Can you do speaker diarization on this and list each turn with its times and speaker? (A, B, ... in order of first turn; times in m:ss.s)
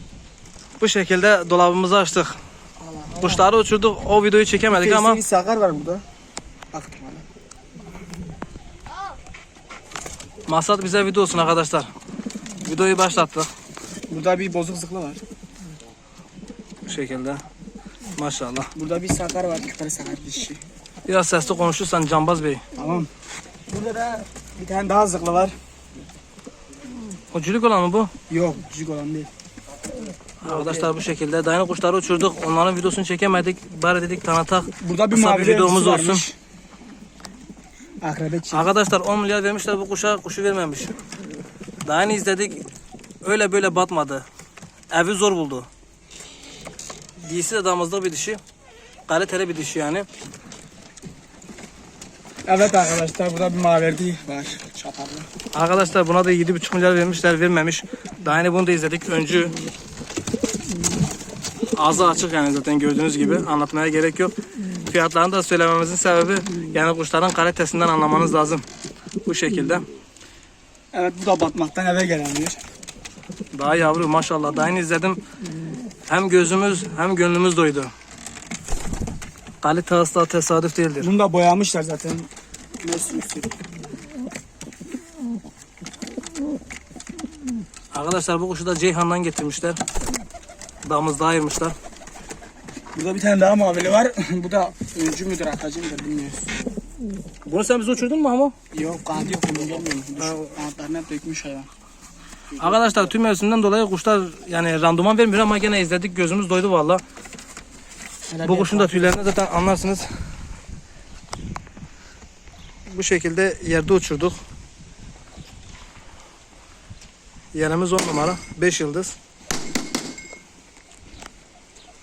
0:00.8-0:02.4 A
0:02.8-0:03.5 B
0:03.2-0:05.2 A
0:04.7-0:06.0 B
0:06.7-0:07.2 B
0:10.5-0:11.9 A
0:12.6-0:13.5 A
0:14.1-0:15.2 B
0:16.9-0:17.4 A
0:18.2-0:18.7 A
0:18.8-0:20.6 B
0:21.1-0:22.6 A
0:22.8-0:23.1 B
0:23.7-0:25.6 B
0:27.3-0:28.1 A
0:28.3-0:29.3 B
0:30.4-0:36.2 A
0:30.5-0:30.9 B
0:34.8-0:36.4 B
0:38.0-0:38.7 B
0:38.5-0:40.9 A
0:41.8-0:42.6 A
0:43.2-0:44.2 A
0:44.9-0:45.7 A
0:47.2-0:48.4 A
0:49.1-0:50.1 A
0:52.5-0:55.3 B
0:55.5-0:59.5 A
1:01.8-1:04.4 A
1:04.9-1:08.6 A
1:09.2-1:09.8 A
1:10.9-1:12.6 B
1:13.5-1:15.2 A
1:16.1-1:17.9 A
1:19.6-1:21.1 A
1:21.0-1:22.3 B
1:22.8-1:23.5 B
1:27.9-1:29.8 A
1:30.8-1:31.8 A
1:33.0-1:36.6 B
1:37.5-1:38.6 A
1:38.7-1:41.7 B
1:42.6-1:43.1 B
1:42.6-1:47.0 A
1:48.3-1:49.2 B
1:48.4-1:50.1 A
1:52.9-1:54.4 A
1:57.5-1:59.2 A